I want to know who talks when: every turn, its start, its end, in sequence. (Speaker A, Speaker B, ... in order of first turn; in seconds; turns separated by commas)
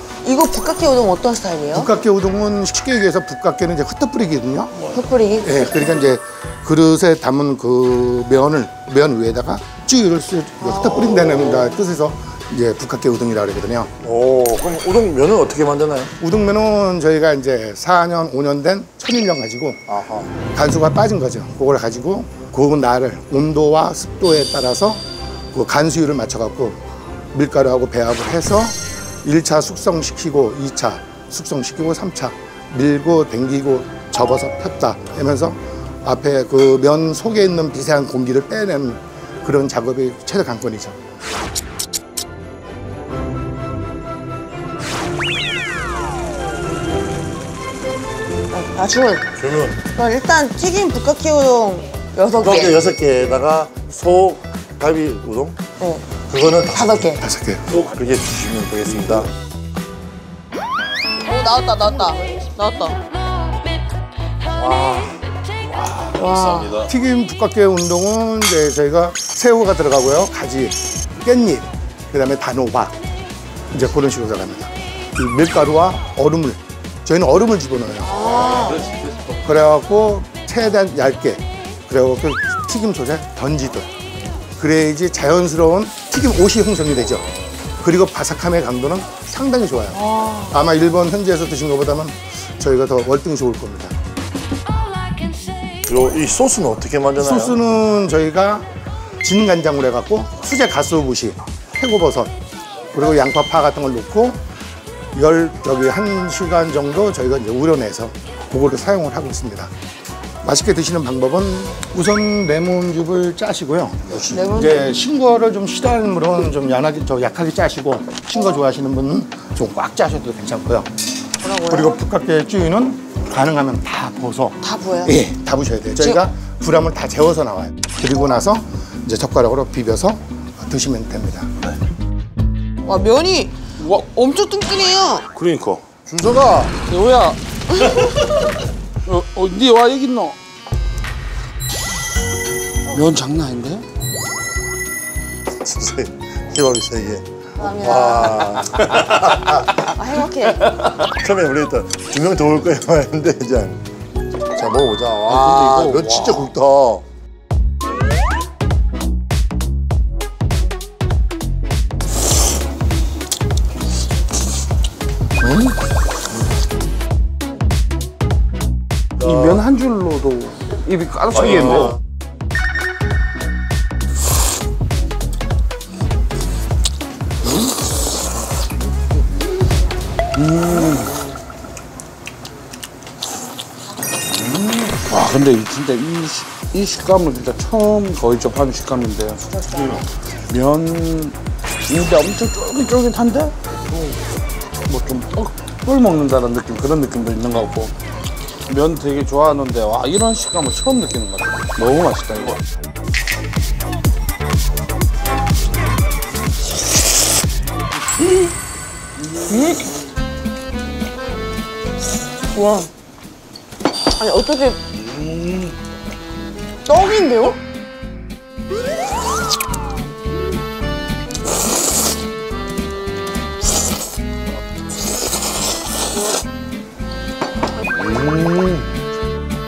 Speaker A: 0.2-1.9, Speaker B: 1.7-13.9, Speaker C: 4.8-5.0, Speaker A: 4.9-5.8, Speaker A: 10.6-11.1, Speaker D: 11.1-11.7, Speaker D: 14.0-16.1, Speaker B: 16.2-19.9, Speaker D: 19.9-20.4, Speaker B: 20.4-41.0, Speaker A: 48.5-49.3, Speaker D: 49.4-49.8, Speaker A: 49.9-52.8, Speaker D: 52.4-55.6, Speaker A: 55.8-56.1, Speaker D: 56.3-57.0, Speaker A: 56.7-57.2, Speaker B: 57.2-57.6, Speaker D: 57.7-59.3, Speaker A: 61.2-63.0, Speaker D: 64.5-65.1, Speaker C: 65.7-66.9, Speaker A: 66.2-66.8, Speaker B: 66.9-73.0, Speaker B: 73.7-78.7, Speaker A: 78.0-78.9, Speaker B: 79.4-83.9, Speaker B: 84.6-87.3, Speaker B: 87.8-93.9, Speaker A: 89.9-90.5, Speaker D: 95.8-97.6, Speaker B: 97.2-98.7, Speaker B: 99.2-102.3, Speaker B: 102.9-104.4, Speaker B: 105.1-109.7, Speaker B: 110.4-120.9, Speaker A: 114.3-114.9, Speaker A: 121.4-122.0, Speaker B: 121.7-131.5, Speaker A: 124.6-125.2, Speaker A: 126.0-126.2, Speaker A: 132.8-135.2, Speaker C: 135.3-135.8, Speaker D: 136.1-136.8, Speaker E: 136.9-137.4, Speaker E: 139.1-140.4, Speaker E: 142.9-143.8, Speaker D: 145.5-149.6, Speaker A: 147.6-148.6, Speaker A: 149.8-150.8, Speaker D: 151.1-153.8, Speaker D: 154.5-157.0, Speaker E: 155.2-156.5, Speaker D: 165.4-165.7, Speaker E: 169.2-171.9, Speaker E: 180.4-181.1, Speaker E: 184.3-189.4, Speaker A: 189.5-190.0, Speaker E: 190.5-191.4, Speaker E: 191.9-194.2, Speaker E: 194.9-197.9, Speaker E: 198.7-202.6, Speaker A: 209.5-209.8, Speaker A: 212.5-212.9, Speaker A: 214.2-214.8, Speaker C: 215.1-215.7, Speaker A: 216.8-217.6, Speaker C: 227.9-228.9